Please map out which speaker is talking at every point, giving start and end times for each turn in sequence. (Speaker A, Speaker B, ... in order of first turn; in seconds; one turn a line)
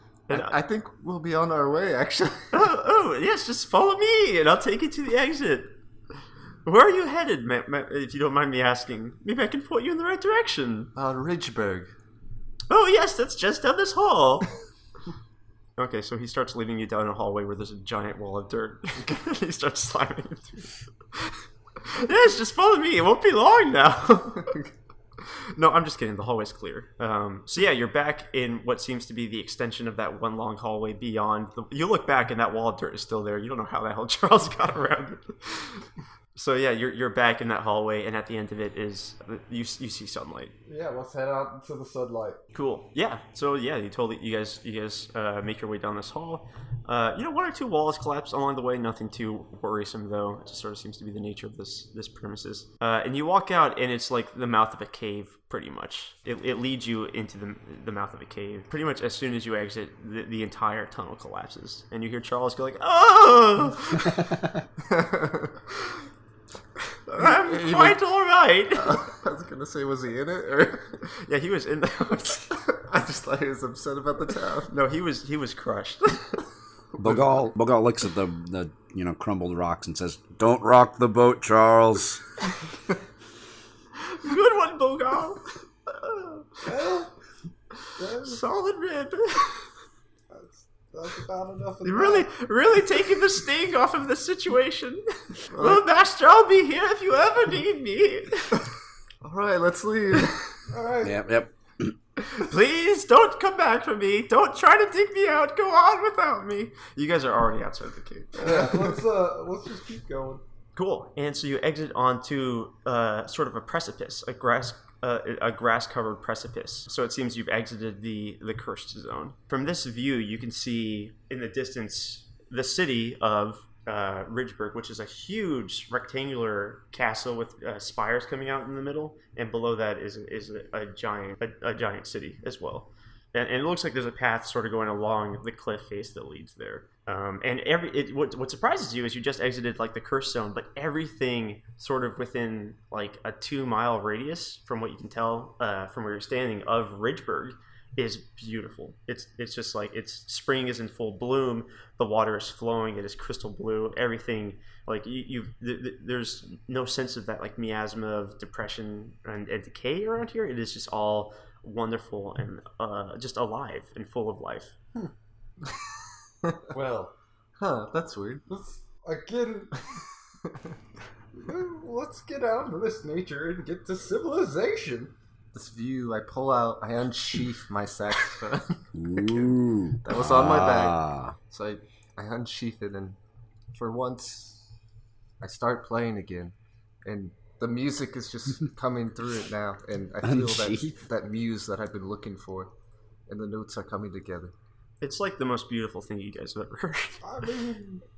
Speaker A: 0.3-0.6
Speaker B: 0.3-2.6
Speaker A: 2.5-5.8
Speaker A: 6.7-10.9
Speaker B: 10.9-11.9
Speaker A: 12.7-14.5
Speaker A: 15.8-24.6
Speaker A: 25.2-35.8
Speaker A: 36.4-40.5
Speaker C: 40.7-42.4
Speaker A: 42.5-64.2
Speaker B: 64.8-65.5
Speaker A: 67.1-69.1
Speaker B: 67.2-68.0
Speaker B: 68.8-71.0
Speaker A: 71.0-72.6
Speaker B: 72.7-74.7
Speaker A: 74.7-76.4
Speaker D: 77.0-82.2
Speaker A: 84.0-86.6
Speaker C: 86.6-87.1
Speaker C: 88.0-88.4
Speaker A: 88.2-89.7
Speaker C: 90.3-92.3
Speaker A: 91.8-98.7
Speaker B: 95.5-95.9
Speaker B: 99.2-100.4
Speaker C: 100.7-101.2
Speaker D: 101.0-101.9
Speaker A: 102.2-108.6
Speaker C: 108.3-110.4
Speaker A: 110.8-164.7
Speaker C: 166.7-167.1
Speaker B: 167.6-168.4
Speaker C: 168.5-169.9
Speaker C: 171.4-175.1
Speaker B: 175.5-179.5
Speaker D: 178.9-181.3
Speaker B: 180.0-183.2
Speaker B: 183.7-184.7
Speaker B: 185.4-192.7
Speaker D: 190.2-191.0
Speaker B: 193.3-194.5
Speaker A: 195.0-197.2
Speaker C: 197.2-198.0